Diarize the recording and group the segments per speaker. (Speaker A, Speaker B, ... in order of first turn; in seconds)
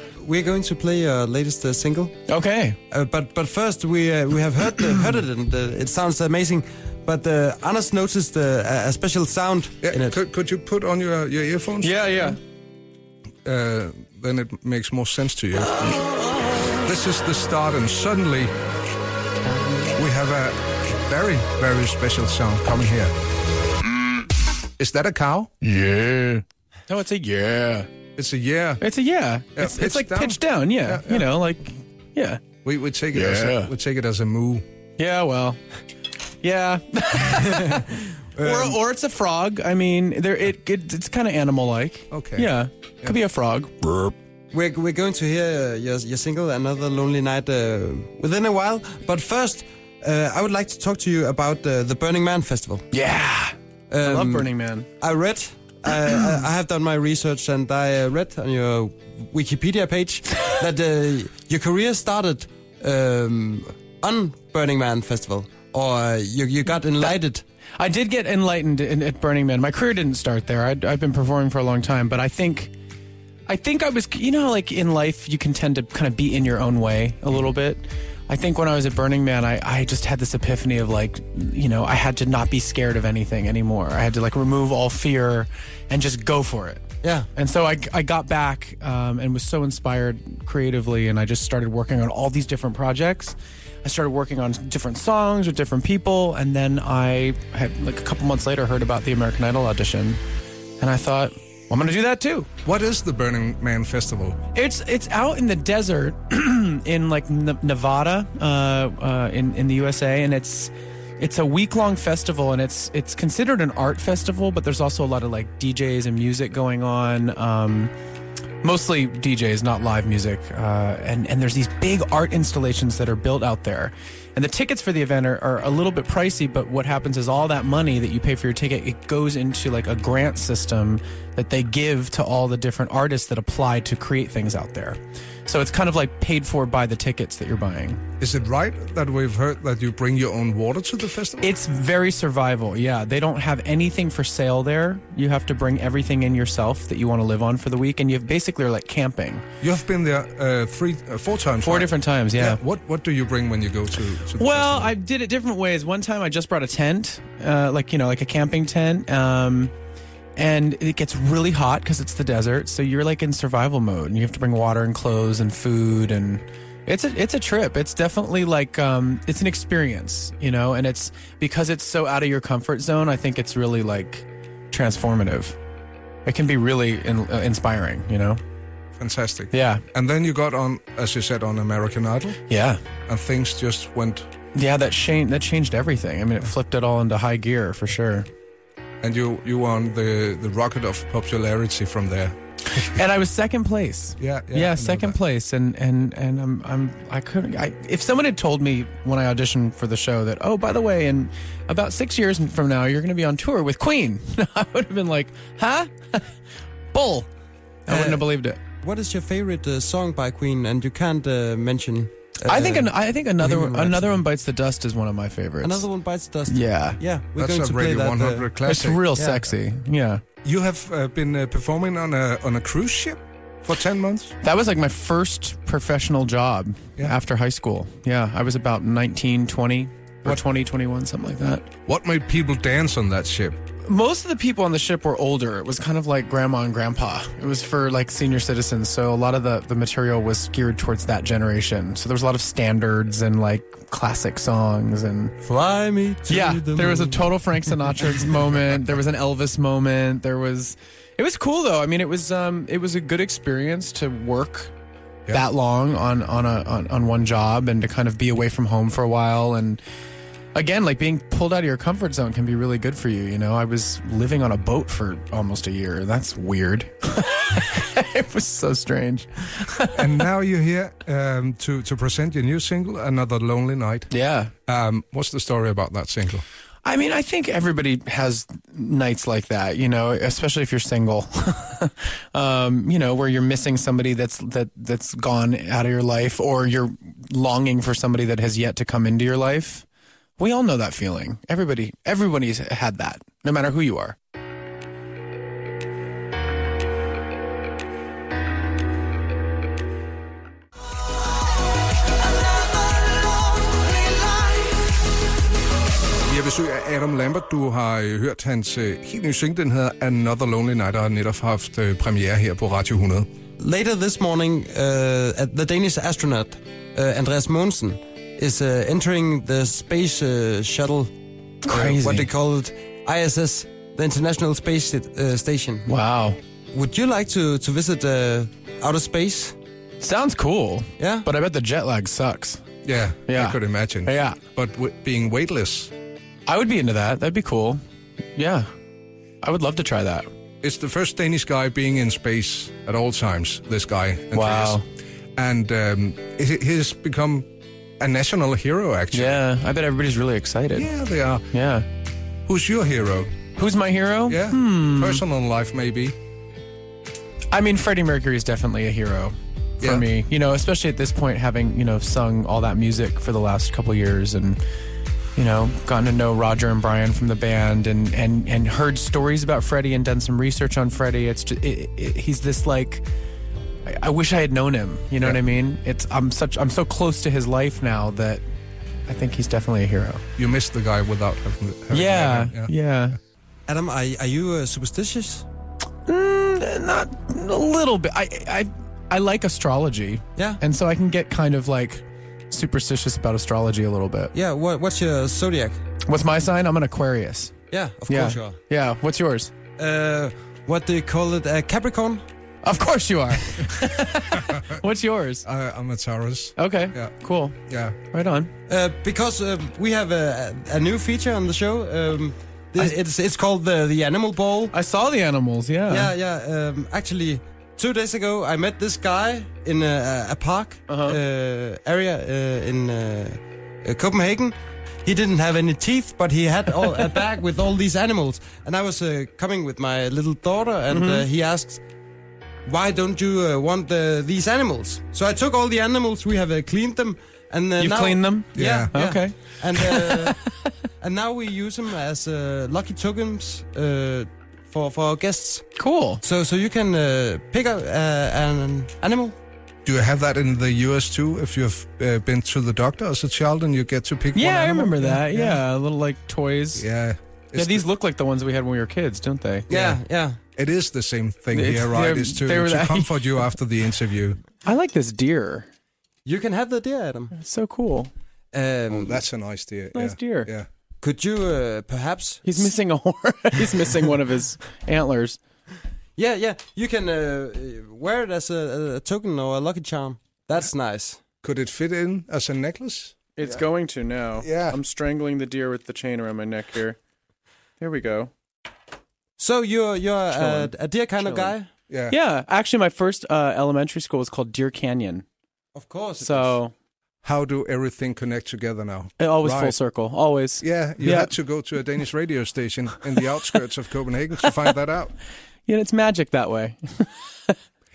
Speaker A: 0.2-2.2, 2.9-10.2, 37.5-38.8, 44.5-52.9, 53.9-67.4, 87.0-87.3, 207.9-208.3, 208.8-214.2, 215.6-218.5, 219.1-219.4, 245.4-247.3, 303.7-304.8, 313.6-321.1, 321.6-325.9, 326.7-329.6, 331.0-331.3, 383.7-385.5, 394.3-395.8, 397.7-398.6, 399.8-402.2, 408.7-414.8, 415.9-431.8, 432.7-440.4, 441.0-445.7, 446.2-449.4, 459.7-460.4, 466.2-467.3, 468.5-469.2, 471.0-472.6, 476.2-481.2, 489.4-491.7, 495.8-496.6
Speaker B: 2.3-2.8, 11.8-12.4, 25.6-27.9, 28.8-32.4, 33.1-33.7, 35.0-35.6, 36.4-44.1, 52.9-54.9, 67.8-72.7, 73.5-86.8, 87.3-100.2, 100.8-102.5, 104.5-117.9, 118.6-138.0, 141.4-149.4, 151.6-152.6, 154.4-159.7, 160.4-175.6, 176.3-178.4, 179.5-179.8, 182.5-182.8, 184.5-188.3, 192.7-206.4, 206.9-207.3, 207.9-208.6, 212.5-215.8, 216.5-217.0, 218.6-220.2, 224.4-231.7, 233.8-245.3, 246.3-254.7, 255.3-259.8, 260.6-270.1, 274.1-274.5, 276.9-289.9, 290.4-294.2, 321.6-322.3, 325.9-326.4, 330.0-332.6, 333.3-334.4, 336.5-337.8, 338.4-338.7, 339.4-340.3, 344.3-344.9, 349.1-350.9, 351.5-351.9, 353.6-355.2, 357.5-364.6, 365.4-373.1, 373.9-378.4, 379.1-380.2, 381.9-383.2, 386.1-394.3, 396.1-397.6, 398.1-399.5, 402.6-405.4, 406.6-407.6, 408.1-408.5, 414.7-416.1, 420.9-421.2, 430.9-431.3, 437.8-440.7, 445.8-446.2, 454.4-456.9, 457.5-459.7, 461.5-463.4, 464.6-465.7, 467.3-468.1, 469.9-470.5, 472.4-475.4, 483.4-487.0, 487.8-488.3, 490.3-491.6, 492.1-495.2, 496.2-496.7, 499.2-501.3, 505.7-507.5
Speaker C: 9.8-12.3, 13.4-16.1, 16.8-18.5, 19.9-23.1, 24.8-25.5, 28.2-28.8, 29.6-31.3, 32.6-34.6, 42.1-42.5, 102.7-104.4, 138.2-141.5, 149.6-154.9, 179.0-182.4, 183.1-184.3, 189.0-192.4, 194.2-195.2, 217.4-219.1, 220.4-224.4, 231.9-233.6, 269.9-274.1, 274.7-276.4, 306.2-313.3, 332.8-335.9, 340.6-344.8, 345.4-347.5, 348.0-349.4, 350.8-351.5, 352.5-353.3, 354.3-356.2, 380.4-382.7, 404.3-404.8, 405.4-407.1, 407.7-408.0, 438.6-438.9, 449.9-455.6, 456.8-457.9, 459.7-460.0, 460.6-464.4, 468.9-470.7, 481.4-483.2, 484.4-484.8, 491.9-492.2, 497.2-499.8, 500.6-505.1